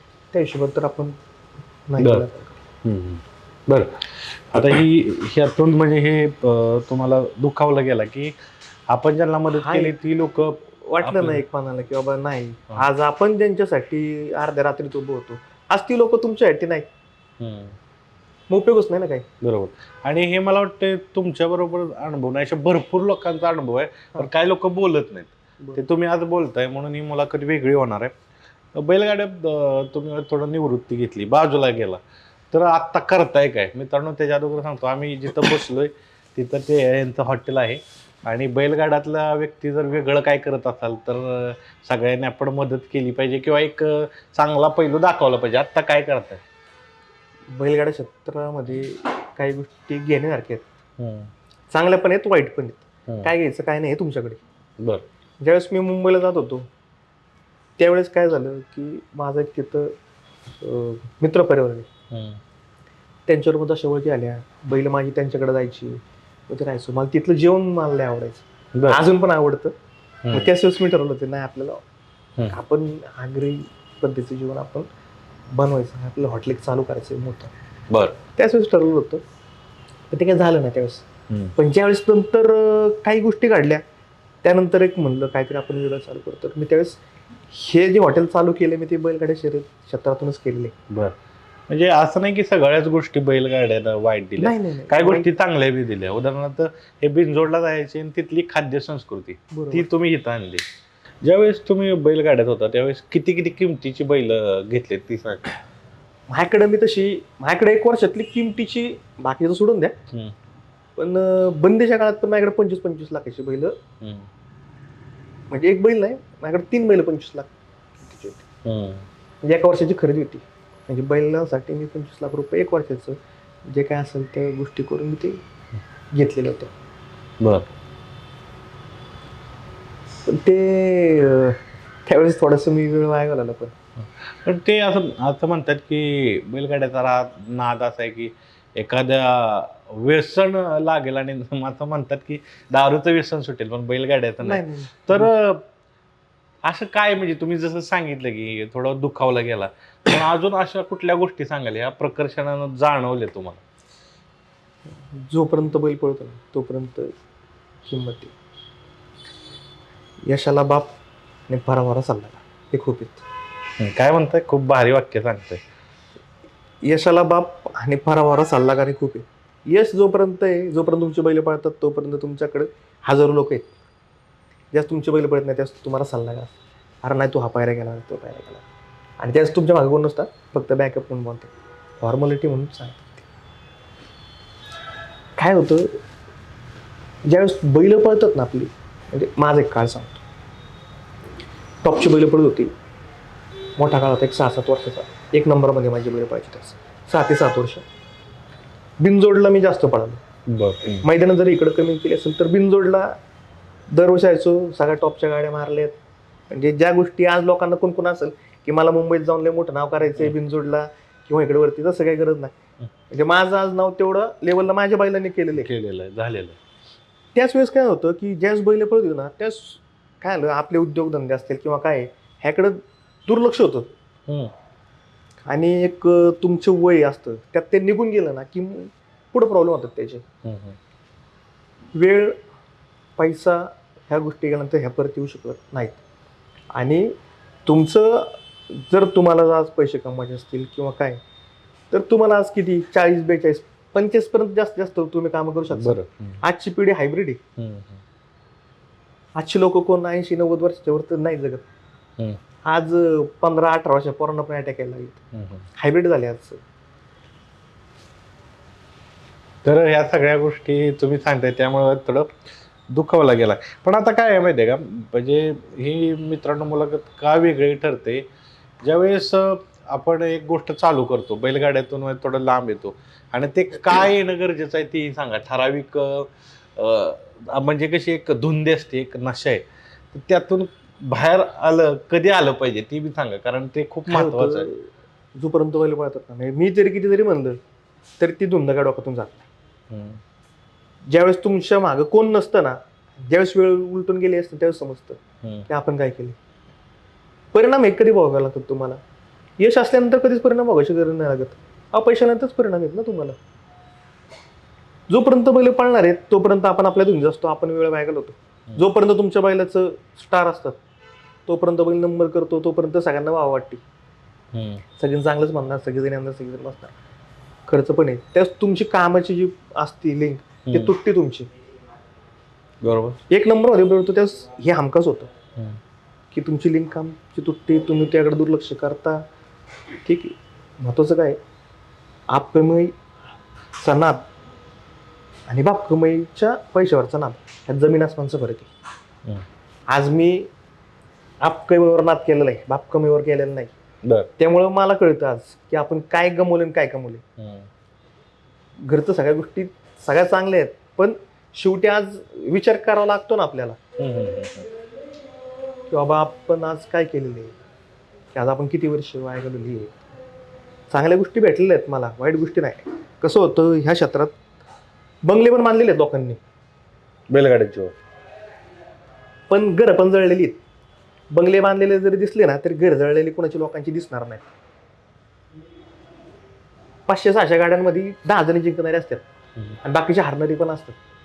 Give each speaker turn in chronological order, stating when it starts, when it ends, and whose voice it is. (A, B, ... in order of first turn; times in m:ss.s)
0:00.3-0:01.2 A
0:01.9-0:02.6 A
0:02.0-0:02.2 B
0:02.8-0:08.3 B
0:08.9-0:11.4 B
0:09.5-0:09.9 A
0:10.8-0:16.9 A
0:17.4-0:17.8 B
0:18.5-0:19.3 A
0:19.4-0:28.1 B
0:28.7-0:46.4 B
0:47.5-0:50.6 A
0:51.0-0:51.3 B
0:51.7-0:54.4 A
0:54.8-0:55.0 B
0:55.4-0:56.7 A
0:57.8-0:59.9 A
1:00.6-1:01.9 A
1:02.1-1:02.4 B
1:03.3-1:09.7 A
1:08.7-1:09.0 B
1:10.2-1:10.5 B
1:10.3-1:11.8 A
1:12.5-1:14.9 A
1:15.5-1:17.5 A
1:17.9-1:18.2 B
1:18.3-1:19.2 A
1:20.1-1:23.8 A
1:21.3-1:21.5 B
1:24.4-1:27.0 A
1:27.5-1:30.7 A
1:30.9-1:31.2 B
1:31.7-1:40.6 B
1:34.4-1:35.3 A
1:39.5-1:39.9 A
1:41.2-1:45.5 B
1:46.3-1:50.0 A
1:51.0-1:53.8 A
1:54.0-1:54.3 B
1:55.5-1:58.4 A
1:58.6-1:59.0 B
1:59.4-2:05.4 A
2:06.1-2:06.7 A
2:07.4-2:07.7 B
2:10.2-2:13.7 A
2:14.0-2:25.6 B
2:24.4-2:25.3 A
2:26.6-2:33.6 B
2:35.1-2:37.1 A
2:37.8-2:38.3 A
2:40.3-2:40.9 A
2:41.5-2:43.2 A
2:43.8-2:45.6 B
2:46.8-2:53.7 A
2:54.7-2:58.6 A
2:59.2-3:01.5 A
3:02.0-3:03.2 A
3:05.4-3:05.9 A
3:07.2-3:10.2 A
3:11.8-3:12.7 A
3:13.8-3:17.8 A
3:19.0-3:20.2 A
3:20.5-3:21.0 B
3:21.0-3:23.2 A
3:23.9-3:25.9 A
3:26.5-3:32.5 A
3:33.1-3:35.7 A
3:35.5-3:36.6 B
3:37.3-3:43.9 A
3:44.3-3:44.5 B
3:45.5-3:50.2 A
3:50.4-3:50.8 B
3:51.9-3:52.4 A
3:53.2-3:56.0 A
3:56.7-3:57.1 A
3:57.6-4:01.2 A
4:01.9-4:07.4 A
4:05.7-4:06.4 B
4:07.6-4:08.0 B
4:09.4-4:11.6 A
4:12.6-4:15.2 A
4:15.3-4:15.6 B
4:15.8-4:16.6 A
4:19.6-4:22.3 B
4:22.9-4:28.2 B
4:28.8-4:44.7 B
4:44.1-4:47.6 A
4:48.2-4:49.5 A
4:49.9-4:50.2 B
4:51.1-4:56.4 A
4:57.5-4:59.0 A
4:59.6-5:03.4 A
5:05.1-5:10.8 A
5:11.5-5:13.8 A
5:14.5-5:14.8 B
5:15.0-5:16.9 A
5:17.7-5:21.5 A
5:22.8-5:23.2 B
5:23.3-5:25.3 A
5:26.3-5:29.2 A
5:30.0-5:31.4 A
5:32.3-5:32.9 A
5:33.8-5:34.2 A
5:35.5-5:38.7 A
5:39.9-5:40.5 A
5:41.4-5:43.7 A
5:44.0-5:44.3 B
5:44.4-5:47.2 A
5:47.4-5:47.7 B
5:48.8-5:53.8 A
5:54.0-5:54.7 B
5:55.9-5:57.6 A
5:58.3-6:00.0 A
6:00.9-6:04.3 A
6:05.2-6:06.4 A
6:07.3-6:07.9 B
6:09.5-6:10.6 A
6:11.3-6:14.4 A
6:17.1-6:19.2 A
6:19.8-6:21.0 A